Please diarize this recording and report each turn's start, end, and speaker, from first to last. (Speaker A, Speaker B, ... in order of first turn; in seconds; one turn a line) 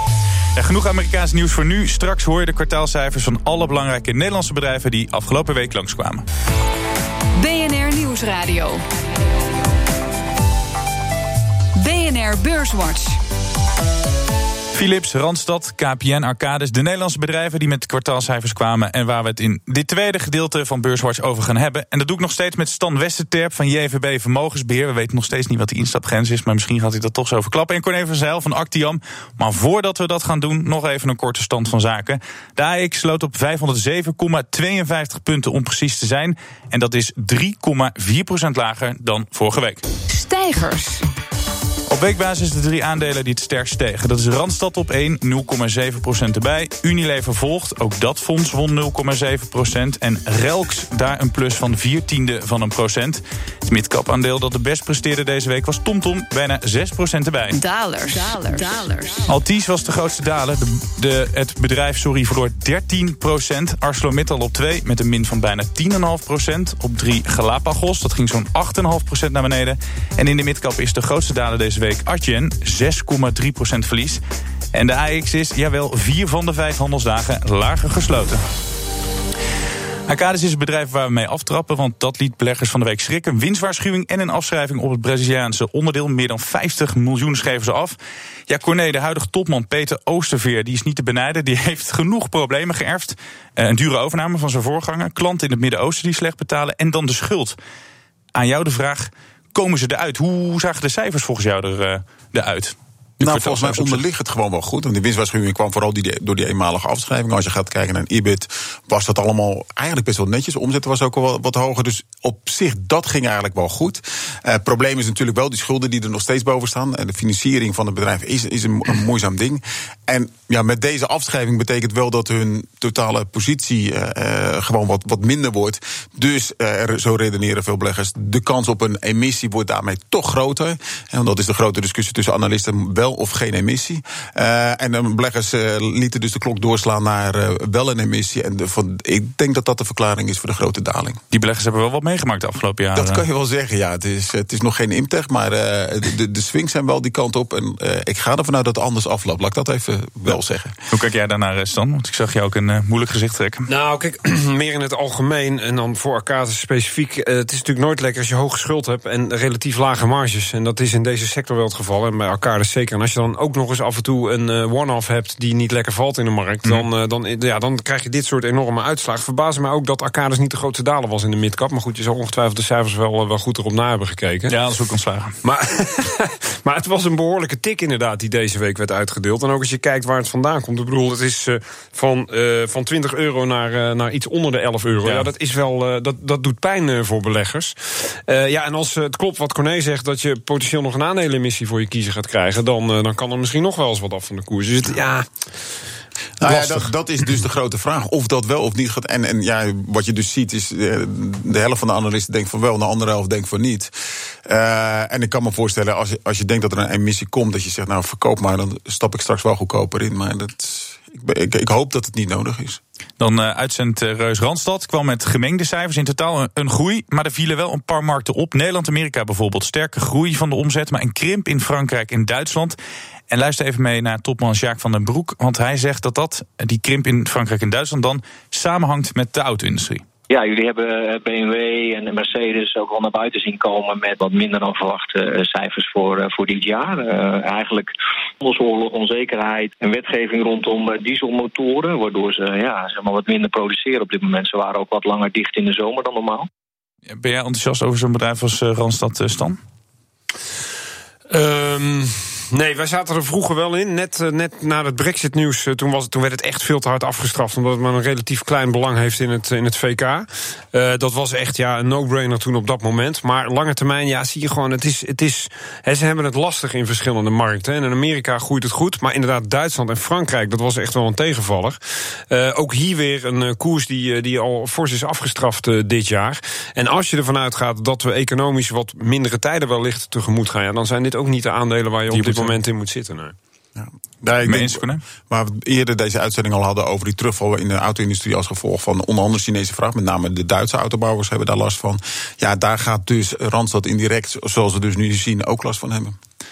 Speaker A: 0.6-6.2
Speaker B: 7.3-8.8
Speaker B: 11.8-13.2
Speaker A: 14.7-39.8
Speaker B: 40.1-41.0
Speaker A: 41.9-57.6
Speaker B: 57.5-59.3
Speaker A: 59.2-74.2
Speaker A: 74.7-78.4
Speaker A: 80.1-88.0
Speaker A: 88.5-97.6
Speaker A: 98.3-104.0
Speaker C: 103.2-141.2
Speaker A: 141.3-143.2
Speaker C: 142.9-150.8
Speaker A: 150.9-153.7
Speaker D: 153.7-174.5
Speaker A: 174.5-175.3
Speaker D: 175.4-195.3
Speaker C: 196.4-203.9
Speaker D: 196.4-196.8
Speaker C: 204.4-212.8
Speaker A: 213.2-222.8
Speaker A: 223.3-230.0
Speaker E: 230.3-246.5
Speaker A: 247.1-249.6
Speaker D: 251.3-271.8
Speaker D: 272.3-283.3
Speaker A: 282.1-282.5
Speaker C: 283.8-296.2
Speaker A: 284.4-285.0